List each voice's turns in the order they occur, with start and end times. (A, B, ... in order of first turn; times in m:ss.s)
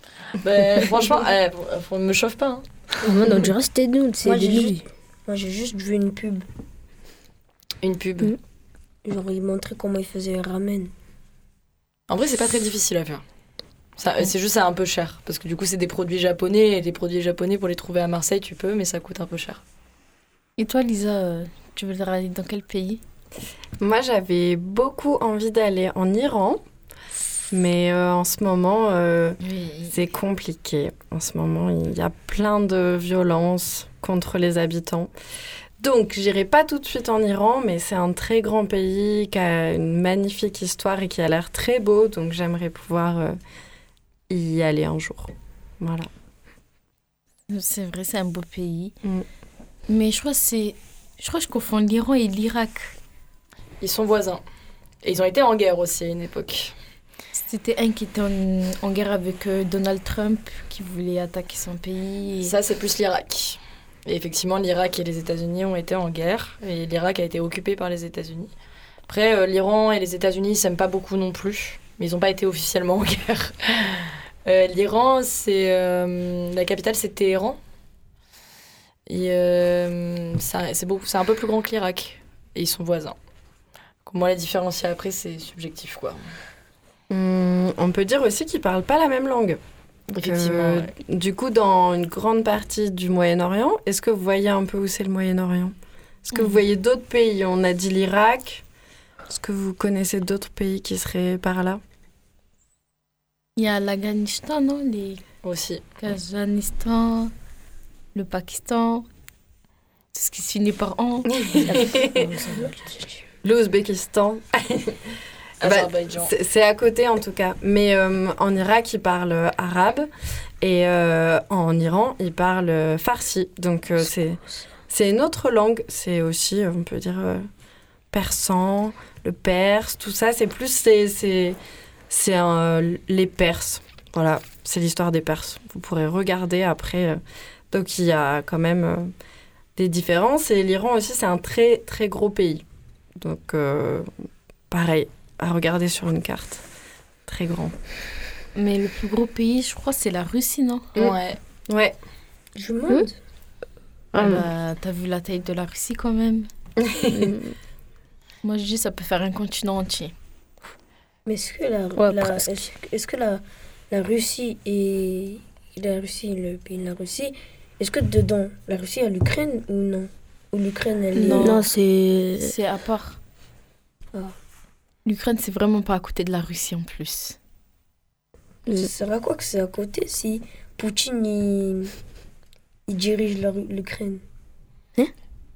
0:00.4-0:02.6 A
0:03.0-0:04.8 B
0:04.2-0:06.4 C
0:07.8-0:08.3 A
0:09.0-0:10.9 C
0:12.1-0:13.2 A
0:14.0-0:19.6 A
0:20.6-0:23.0 D
0:23.8-0:26.6 E
0:27.5-0:35.1 E
0:29.4-0:29.9 D
0:35.8-0:43.4 E
0:44.3-0:46.1 E
0:47.5-0:48.9 D
0:49.9-0:52.9 D
0:53.8-0:54.4 A
0:55.0-0:56.7 A
0:57.3-1:02.5 D
1:02.4-1:08.5 A
1:09.1-1:17.6 A
1:19.1-1:23.2 A
1:24.0-1:26.2 A
1:27.1-1:29.6 E
1:30.1-1:30.9 A
1:30.2-1:35.7 E
1:36.3-1:38.6 E
1:39.3-1:41.8 E
1:43.6-1:45.2 D
1:45.4-1:45.8 A
1:46.0-1:47.3 D
1:48.1-1:49.0 D
1:50.1-1:51.3 D
1:51.5-1:52.3 E
1:51.6-1:52.7 B
1:53.4-1:55.0 E
1:55.6-1:56.3 A
1:55.6-2:00.1 E
2:00.6-2:07.5 E
2:08.1-2:11.6 E
2:12.1-2:17.2 E
2:17.7-2:19.1 E
2:19.8-2:22.6 E
2:23.2-2:24.1 E
2:24.7-2:26.6 E
2:27.3-2:27.7 E
2:28.5-2:30.9 D
2:31.0-2:31.4 A
2:31.7-2:32.0 E
2:32.6-2:33.1 C
2:34.1-2:34.4 B
2:34.2-2:36.5 D
2:36.9-2:37.3 E
2:37.1-2:37.5 B
2:38.4-2:40.1 D
2:41.2-2:51.6 C
2:42.0-2:42.5 B
2:51.2-2:51.6 D
2:51.2-2:52.5 B
2:52.4-2:53.2 D
2:55.0-2:57.4 D
2:58.7-3:01.9 C
3:02.9-3:04.2 C